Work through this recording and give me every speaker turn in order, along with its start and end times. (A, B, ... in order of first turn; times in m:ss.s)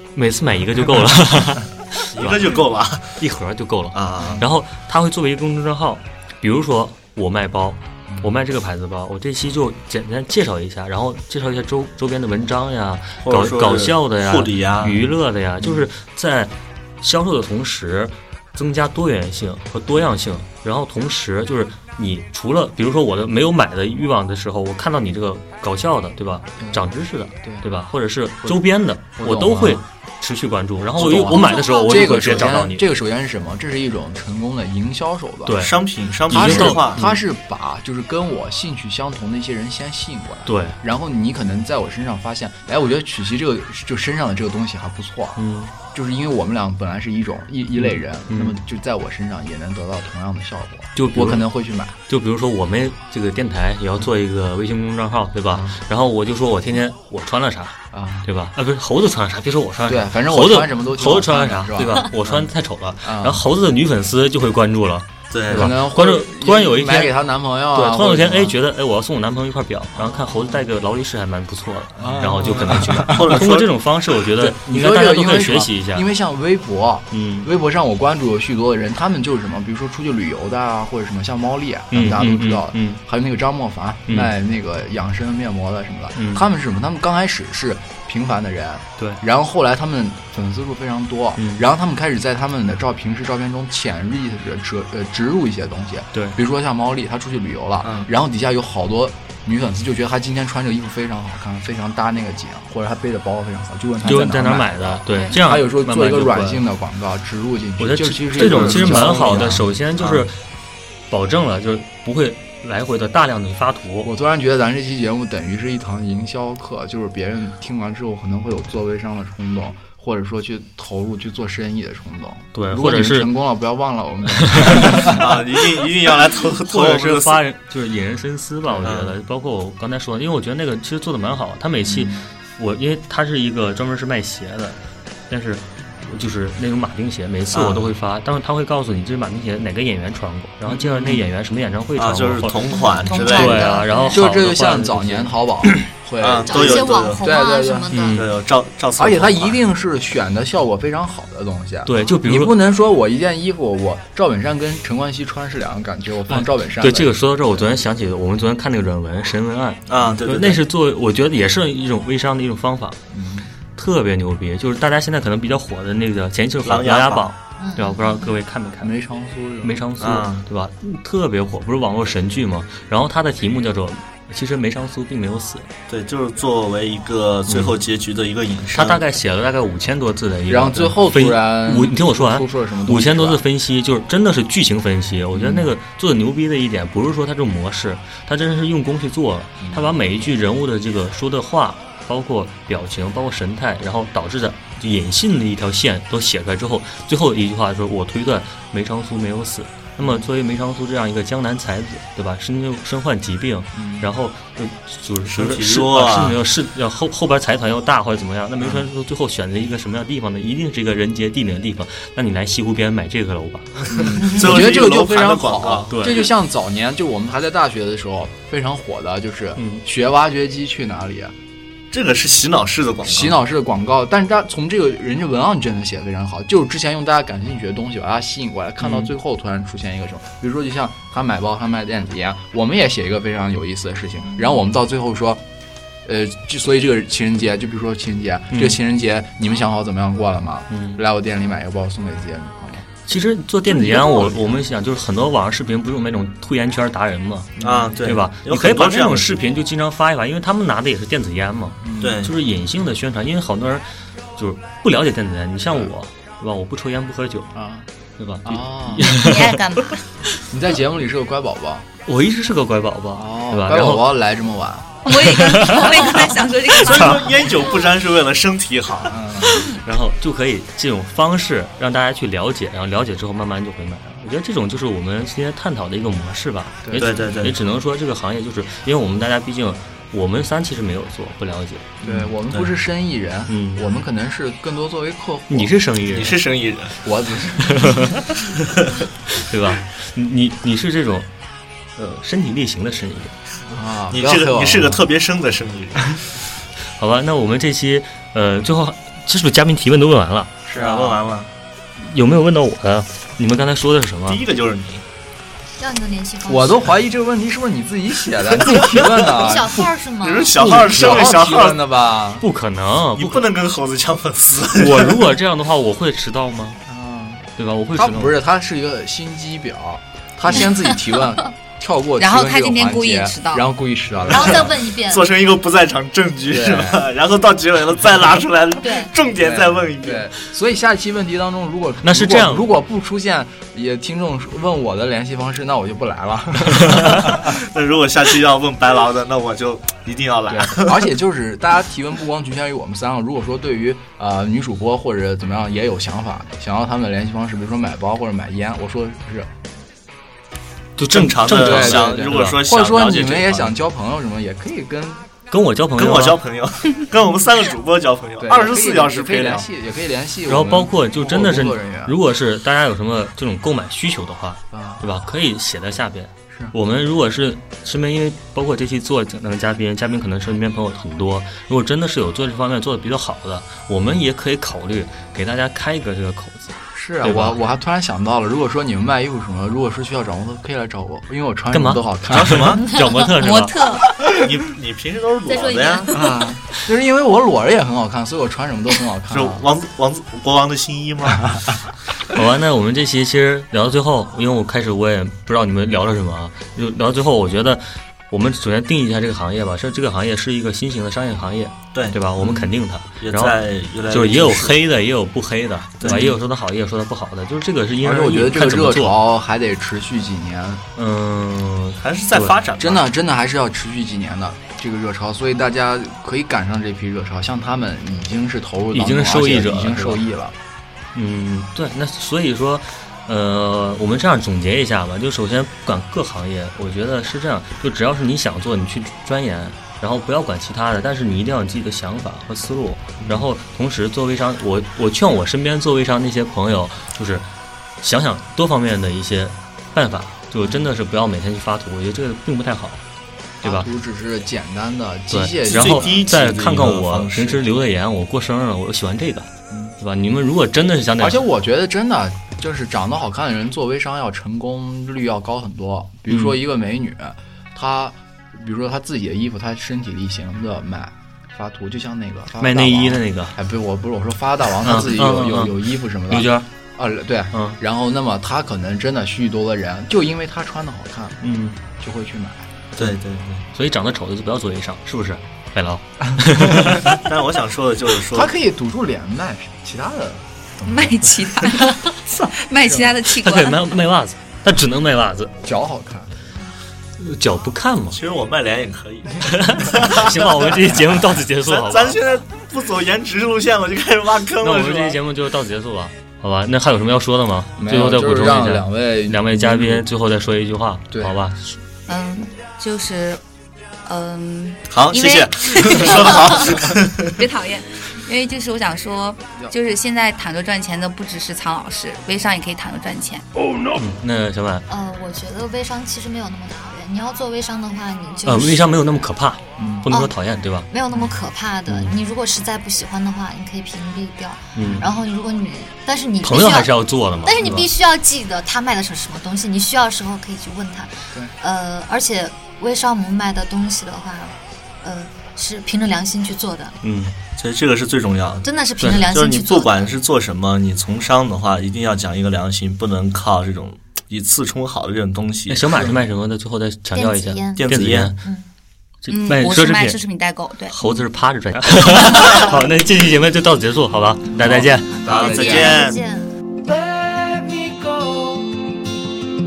0:00.2-0:02.6 A
0:02.1-0:03.2 B
0:03.2-0:32.8 A
0:03.9-0:04.4 B
0:08.1-0:08.3 C
0:13.2-0:15.1 B
0:15.6-0:15.9 C
0:26.6-0:26.9 C
0:29.2-0:29.8 C
0:31.0-0:35.6 C
0:31.0-0:31.3 B
0:31.3-0:32.5 D
0:35.5-0:35.7 A
0:35.6-0:37.1 B
0:36.3-0:37.2 A
0:36.3-0:52.0 C
0:40.5-0:40.8 A
0:45.4-0:45.7 A
0:47.8-0:48.6 A
0:51.0-0:51.5 A
0:52.1-1:07.1 A
0:57.9-0:58.3 C
0:59.9-1:02.5 C
1:03.0-1:03.4 C
1:05.3-1:05.8 B
1:05.5-1:08.6 C
1:07.7-1:16.0 A
1:10.0-1:10.6 C
1:12.0-1:13.5 C
1:12.9-1:13.7 B
1:14.4-1:50.2 C
1:17.1-1:17.5 A
1:21.9-1:23.0 A
1:24.1-1:24.3 A
1:26.1-1:26.4 A
1:31.4-1:31.6 A
1:44.0-1:46.6 A
1:45.1-1:45.4 E
1:47.8-1:50.4 A
1:48.3-1:50.1 B
1:51.1-1:54.1 A
1:54.0-2:05.2 C
2:02.5-2:03.3 A
2:04.3-2:05.2 A
2:04.8-2:07.4 B
2:06.6-2:25.9 A
2:08.8-2:09.1 B
2:11.8-2:12.2 C
2:17.5-2:17.9 B
2:22.0-2:23.8 B
2:22.8-2:23.5 D
2:23.1-2:24.2 E
2:24.1-2:27.9 C
2:26.2-2:27.3 B
2:26.5-2:28.2 D
2:27.9-2:28.3 A
2:28.2-2:29.6 B
2:29.0-2:37.8 C
2:31.9-2:32.6 A
2:36.3-2:43.0 A
2:39.9-2:40.6 B
2:43.1-2:43.5 C
2:43.8-2:48.9 A
2:46.6-2:47.3 B
2:47.6-2:48.4 D
2:48.8-2:49.8 C
2:49.6-2:55.7 A
2:50.0-2:50.5 B
2:55.9-2:59.0 B
2:57.5-2:57.8 A
2:58.7-3:34.0 A
3:00.5-3:03.4 C
3:05.3-3:05.7 C
3:09.6-3:10.0 C
3:20.0-3:20.3 C
3:23.8-3:24.1 C
3:25.3-3:26.4 B
3:33.9-3:41.3 C
3:33.9-3:35.9 B
3:35.9-3:36.3 A
3:39.6-3:39.8 A
3:41.9-3:43.4 B
3:43.0-3:55.4 C
3:48.8-3:49.1 A
3:56.0-4:02.9 C
3:58.5-3:58.8 A
4:00.7-4:01.0 A
4:03.0-4:17.5 A
4:03.7-4:04.6 C
4:07.6-4:07.9 C
4:07.6-4:09.4 B
4:11.8-4:12.2 C
4:12.0-4:12.4 B
4:17.5-4:17.9 C
4:18.2-4:19.6 A
4:18.4-4:19.3 C
4:19.0-4:20.0 E
4:20.5-4:21.9 C
4:22.1-4:24.1 A
4:23.2-4:25.1 C
4:25.0-4:27.6 E
4:25.3-4:26.0 A
4:26.8-4:29.2 B
4:26.9-4:27.2 A
4:29.1-4:29.7 C
4:29.6-4:42.8 A
4:37.0-4:37.6 B
4:42.0-4:45.7 C
4:43.5-4:43.9 A
4:45.5-4:46.4 A
4:46.0-4:47.0 B
4:47.0-4:48.2 C
4:47.6-4:48.3 A
4:49.3-4:51.3 A
4:52.0-4:53.4 A
4:53.7-4:55.0 C
4:54.1-4:56.3 B
4:57.0-5:01.1 A
5:00.7-5:01.2 C
5:00.8-5:01.5 B
5:02.0-5:04.4 A
5:04.3-5:05.0 B
5:05.8-5:07.0 D
5:06.5-5:09.9 C
5:09.2-5:10.5 D
5:10.2-5:11.9 B
5:10.6-5:12.4 C
5:10.7-5:11.2 A
5:12.4-5:13.4 A
5:13.2-5:15.3 B
5:14.7-5:16.8 A
5:16.9-5:17.4 C
5:17.6-5:18.4 A
5:18.0-5:24.7 C
5:22.2-5:23.7 E
5:24.3-5:25.3 D
5:24.4-5:30.3 B
5:26.5-5:27.1 C
5:28.8-5:29.1 D
5:29.4-5:37.6 C
5:32.0-5:32.7 A
5:36.9-5:37.3 A
5:37.3-5:41.1 B
5:40.5-5:49.5 C
5:51.0-5:52.6 A
5:51.1-5:53.8 B
5:51.5-5:55.3 C
5:55.5-5:56.4 A
5:56.0-5:59.7 B
5:58.4-6:02.2 C
6:00.5-6:17.6 A
6:04.7-6:05.0 C
6:06.5-6:06.8 C
6:16.9-6:22.8 C
6:21.7-6:23.8 A
6:22.3-6:23.0 B
6:23.2-6:24.1 E
6:24.3-6:26.2 B
6:25.5-6:26.3 D
6:26.1-6:29.6 C
6:29.3-6:31.7 B
6:32.3-6:49.1 A
6:41.9-6:42.2 B
6:42.4-6:42.7 C
6:43.2-6:44.8 B
6:46.0-6:46.3 B
6:46.0-6:46.3 C
6:48.0-6:50.9 C
6:51.0-6:52.6 A
6:52.0-6:53.1 B
6:52.8-7:00.6 C
6:58.9-7:00.2 A
7:01.1-7:17.5 A
7:18.0-7:23.0 A
7:20.6-7:20.9 C
7:23.6-7:23.9 A
7:23.6-7:26.2 C
7:25.3-7:29.5 A
7:25.7-7:27.6 B
7:30.0-7:31.4 A
7:31.2-7:52.7 C
7:36.3-7:36.6 A
7:42.6-7:43.6 A
7:44.8-7:46.7 A
7:47.5-7:47.8 A
7:51.4-7:51.8 A
7:53.0-7:53.7 B
7:53.7-7:57.2 A
7:56.5-7:57.1 C
7:56.9-7:58.5 B
7:58.3-8:01.9 C
8:00.9-8:04.0 E
8:02.8-8:03.1 C
8:03.3-8:05.6 A
8:05.6-8:06.4 C
8:07.2-8:08.2 A
8:08.1-8:10.9 B
8:09.4-8:12.2 A
8:11.6-8:15.2 B
8:14.6-8:21.7 A
8:17.8-8:20.1 C
8:21.1-8:21.4 C
8:22.1-8:23.4 E
8:24.0-8:33.5 E
8:24.9-8:27.3 B
8:33.9-8:34.9 A
8:34.9-8:39.2 D
8:38.4-8:40.9 A
8:39.8-8:40.1 C
8:40.1-8:40.4 D
8:40.9-8:57.0 D
8:44.7-8:45.1 A
8:46.4-8:47.9 A
8:57.0-8:57.4 A
8:57.6-9:06.1 B
8:58.6-9:00.2 D
8:59.0-8:59.3 A
9:05.7-9:08.4 A
9:07.1-9:08.7 D
9:07.8-9:08.3 B
9:09.2-9:10.2 A
9:09.3-9:11.0 E
9:10.9-9:15.3 A
9:14.6-9:16.0 C
9:15.2-9:16.2 B
9:15.3-9:16.5 D
9:16.8-9:18.8 F